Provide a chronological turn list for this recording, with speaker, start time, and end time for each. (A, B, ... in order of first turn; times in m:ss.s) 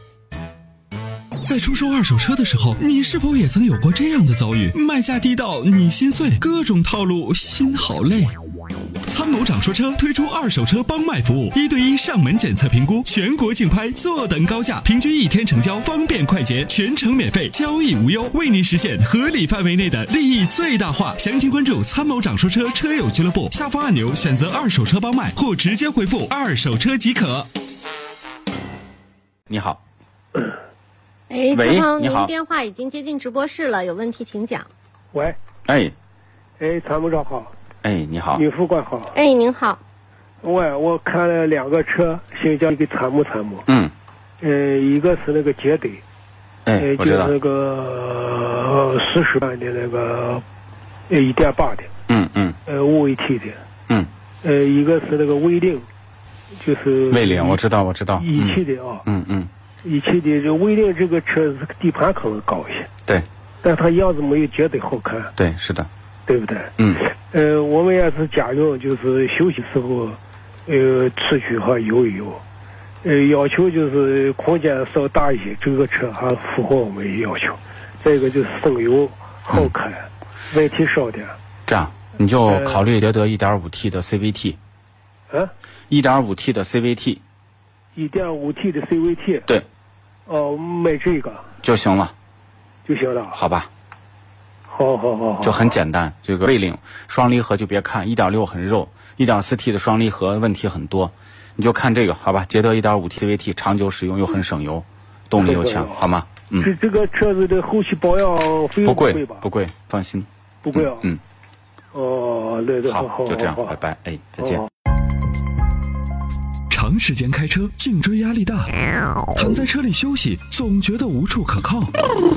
0:01.4-0:08.4 A
0:09.0-0:27.5 A
0:29.5-0:29.8 B
0:31.3-0:34.7 C
0:31.5-0:32.3 B
0:35.1-0:35.4 D
0:35.6-0:35.9 B
0:36.6-0:37.5 D
0:37.8-0:38.4 B
0:38.4-0:39.1 D
0:39.1-0:39.8 C
0:40.4-0:43.6 D
0:43.7-0:43.9 B
0:44.4-0:46.0 D
0:46.6-0:47.3 B
0:46.8-0:50.4 D
0:51.1-0:51.9 D
0:52.1-0:52.6 B
0:52.7-0:53.6 D
0:54.4-0:55.9 D
0:56.6-0:57.6 D
0:57.1-0:59.5 B
0:58.1-0:59.0 D
0:59.8-1:02.9 D
1:03.6-1:05.3 D
1:05.4-1:05.9 B
1:06.3-1:12.4 D
1:06.8-1:07.0 B
1:13.0-1:21.4 D
1:21.7-1:24.6 B
1:22.5-1:22.8 D
1:25.9-1:27.2 B
1:28.0-1:29.5 D
1:30.3-1:31.5 D
1:31.6-1:32.1 B
1:32.8-1:33.4 D
1:33.3-1:33.7 B
1:34.7-1:35.8 D
1:35.4-1:46.7 B
1:45.4-1:46.0 D
1:46.6-1:49.4 D
1:48.8-1:51.2 B
1:50.6-1:51.1 D
1:51.9-1:53.8 D
1:52.8-1:54.7 B
1:54.4-1:54.6 D
1:56.7-1:58.7 A
1:59.3-2:01.9 A